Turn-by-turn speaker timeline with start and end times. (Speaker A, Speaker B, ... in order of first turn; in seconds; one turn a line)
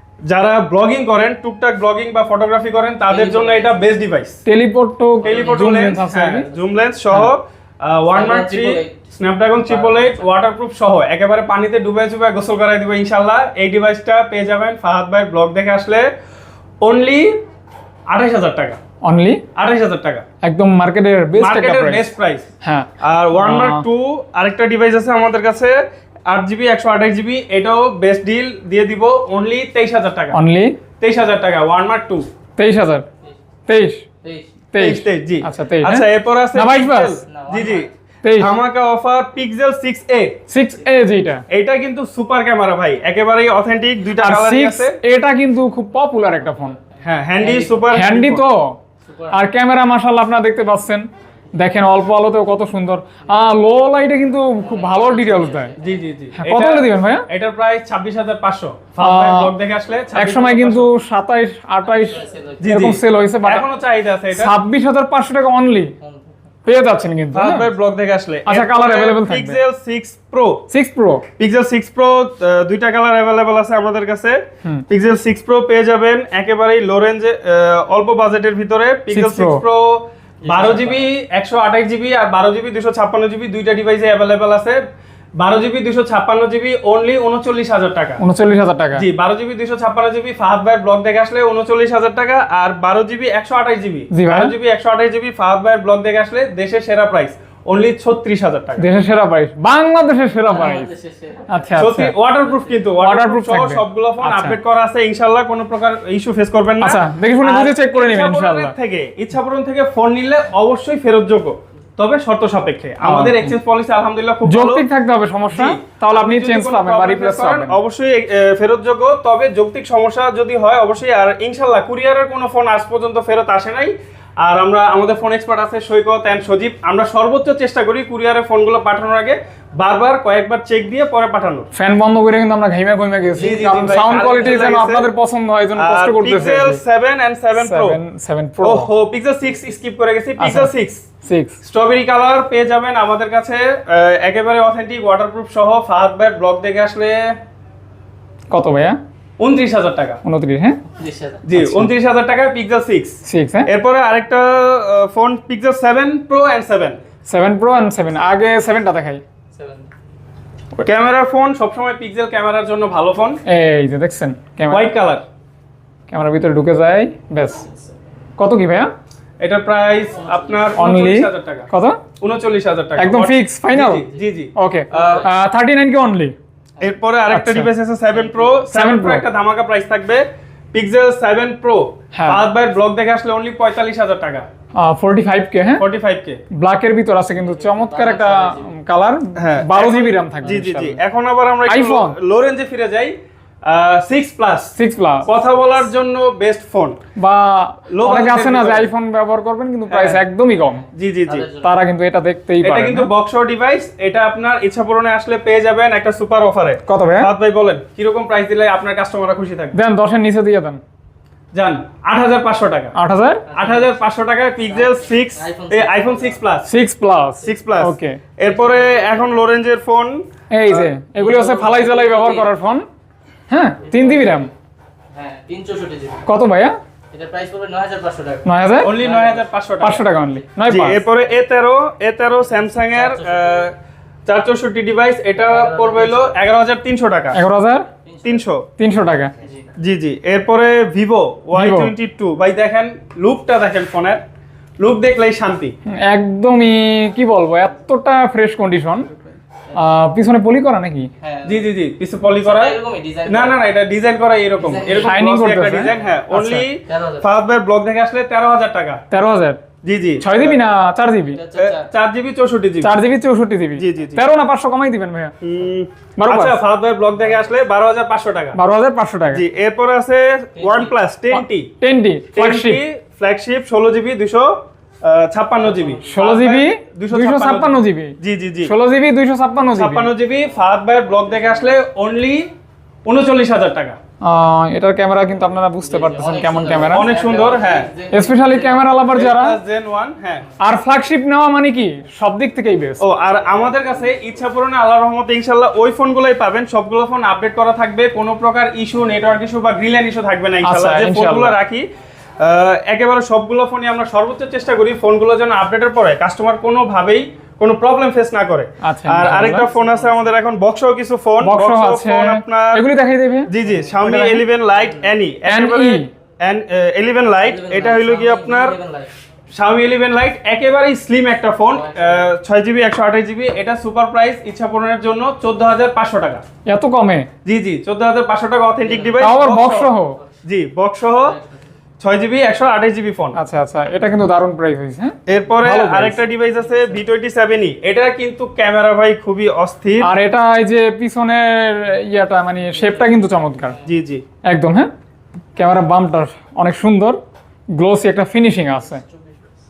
Speaker A: 0.3-4.4
Speaker B: 3.1-3.8
Speaker C: 4.5-6.5
Speaker B: 5.2-6.0
Speaker A: 5.2-16.1
Speaker B: 8.1-9.1
Speaker B: 9.7-10.2
Speaker A: 16.8-17.4
Speaker A: 18.1-18.8
Speaker C: 19.0-19.4
Speaker A: 19.6-20.2
Speaker C: 20.4-22.1
Speaker A: 21.4-22.5
Speaker C: 22.6-23.9
Speaker A: 23.0-30.4
Speaker C: 30.3-30.8
Speaker A: 31.0-32.3
Speaker C: 32.6-33.1
Speaker C: 33.7-34.1
Speaker B: 34.2-34.6
Speaker C: 34.7-37.2
Speaker A: 34.8-40.4
Speaker B: 37.3-37.9
Speaker C: 38.2-38.5
Speaker C: 40.5-41.4
Speaker A: 41.5-45.0
Speaker C: 44.2-46.8
Speaker B: 46.6-47.8
Speaker A: 47.0-48.4
Speaker C: 47.9-48.8
Speaker B: 49.0-49.5
Speaker C: 49.3-51.1
Speaker C: 51.6-55.7
Speaker B: 54.4-56.1
Speaker A: 55.8-60.9
Speaker C: 56.4-57.3
Speaker C: 59.0-59.5
Speaker C: 60.1-63.6
Speaker B: 61.9-62.8
Speaker A: 62.6-64.5
Speaker C: 64.3-65.9
Speaker B: 66.0-66.3
Speaker C: 66.7-67.7
Speaker A: 67.3-70.6
Speaker C: 68.5-69.6
Speaker C: 70.7-71.2
Speaker A: 71.4-84.8
Speaker C: 79.1-79.6
Speaker B: 80.4-81.0
Speaker A: 85.4-88.2
Speaker C: 88.2-89.0
Speaker A: 89.0-98.9
Speaker C: 94.1-94.5
Speaker C: 98.8-100.9
Speaker B: 100.5-101.9
Speaker C: 101.5-102.1
Speaker A: 101.8-114.9
Speaker B: 102.4-102.8
Speaker C: 103.0-104.6
Speaker C: 106.8-108.7
Speaker C: 113.0-113.5
Speaker C: 114.5-117.8
Speaker A: 115.5-131.7
Speaker C: 131.7-136.8
Speaker A: 133.4-135.1
Speaker A: 135.8-138.0
Speaker C: 137.6-138.9
Speaker A: 138.6-141.1
Speaker C: 140.4-141.6
Speaker A: 141.6-147.3
Speaker C: 148.5-149.0
Speaker A: 149.4-150.2
Speaker C: 150.2-150.8
Speaker B: 151.0-151.4
Speaker A: 151.5-157.0
Speaker C: 151.6-151.9
Speaker C: 153.2-153.7
Speaker C: 157.3-159.2
Speaker B: 159.5-159.9
Speaker A: 160.8-163.4
Speaker C: 163.5-164.9
Speaker A: 164.7-165.2
Speaker C: 166.1-167.6
Speaker B: 167.6-167.9
Speaker C: 168.4-168.9
Speaker A: 169.4-171.7
Speaker B: 170.2-170.7
Speaker C: 170.8-172.0
Speaker A: 172.2-175.3
Speaker C: 173.0-176.3
Speaker B: 174.9-175.2
Speaker A: 176.8-184.5
Speaker C: 177.3-177.7
Speaker B: 178.1-178.6
Speaker C: 178.7-179.2
Speaker C: 182.1-182.4
Speaker C: 184.8-185.9
Speaker A: 185.8-186.4
Speaker C: 186.5-191.0
Speaker B: 187.4-188.8
Speaker A: 189.4-193.1
Speaker C: 191.7-192.2
Speaker A: 193.7-194.7
Speaker C: 194.8-195.3
Speaker A: 195.2-197.0
Speaker C: 197.2-200.8
Speaker A: 197.9-198.9
Speaker A: 199.9-200.2
Speaker B: 200.7-201.8
Speaker A: 200.9-201.5
Speaker C: 201.6-203.1
Speaker A: 202.6-209.8
Speaker C: 206.9-207.3
Speaker C: 209.8-210.8
Speaker A: 211.5-213.0
Speaker C: 213.0-213.4
Speaker B: 213.5-214.0
Speaker A: 213.5-216.7
Speaker B: 214.7-216.4
Speaker C: 216.7-218.2
Speaker A: 217.4-220.9
Speaker B: 218.4-219.3
Speaker C: 220.5-222.8
Speaker B: 221.2-222.5
Speaker C: 223.5-224.5
Speaker B: 223.8-224.5
Speaker B: 225.1-226.3
Speaker C: 226.3-226.8
Speaker B: 227.1-229.5
Speaker C: 228.4-228.9
Speaker A: 228.8-230.0
Speaker C: 229.8-231.0
Speaker B: 230.3-231.0
Speaker A: 230.7-233.7
Speaker B: 232.5-233.7
Speaker A: 234.3-237.4
Speaker B: 235.4-236.4
Speaker C: 237.3-237.9
Speaker B: 238.1-238.5
Speaker A: 238.2-238.7
Speaker C: 238.8-239.3
Speaker B: 239.4-239.7
Speaker A: 239.8-244.2
Speaker C: 241.5-241.9
Speaker A: 244.8-245.7
Speaker C: 245.9-249.1
Speaker C: 249.8-251.1
Speaker B: 251.2-251.7
Speaker A: 251.5-252.8
Speaker B: 252.4-253.7
Speaker A: 253.3-259.0
Speaker B: 254.6-255.2
Speaker C: 255.0-256.6
Speaker B: 256.9-257.3
Speaker C: 259.1-259.6
Speaker A: 259.8-260.6
Speaker C: 260.2-261.4
Speaker B: 261.3-261.9
Speaker A: 261.6-262.9
Speaker C: 262.8-265.3
Speaker A: 263.8-264.2
Speaker A: 265.4-268.6
Speaker C: 266.2-266.6
Speaker C: 268.6-269.4
Speaker A: 269.3-271.7
Speaker B: 270.6-270.9
Speaker C: 271.3-272.8
Speaker A: 272.3-278.7
Speaker B: 275.6-276.2
Speaker C: 276.1-280.1
Speaker A: 279.8-282.5
Speaker B: 281.2-281.8
Speaker A: 283.1-284.0
Speaker C: 284.2-287.1
Speaker B: 285.8-289.0
Speaker A: 286.9-287.9
Speaker C: 288.1-289.6
Speaker A: 289.1-290.5
Speaker C: 290.6-293.0
Speaker A: 293.0-301.9
Speaker C: 300.6-301.6
Speaker A: 302.4-312.9
Speaker C: 308.8-309.7
Speaker B: 309.5-310.3
Speaker C: 311.4-313.5
Speaker A: 313.5-318.8
Speaker B: 313.7-313.9
Speaker C: 314.0-314.4
Speaker B: 314.7-315.1
Speaker C: 315.5-316.1
Speaker B: 317.4-319.1
Speaker A: 319.5-326.4
Speaker B: 321.7-322.3
Speaker C: 326.7-327.3
Speaker A: 327.4-329.9
Speaker B: 328.8-329.4
Speaker C: 329.2-330.2
Speaker A: 330.4-331.4
Speaker B: 331.2-331.7
Speaker A: 332.0-333.4
Speaker C: 333.4-336.2
Speaker A: 335.3-340.1
Speaker B: 336.5-337.0
Speaker C: 340.0-343.8
Speaker B: 342.7-344.0
Speaker A: 343.9-344.2
Speaker C: 344.4-344.9
Speaker C: 345.6-347.2
Speaker C: 347.7-349.0
Speaker B: 348.8-349.5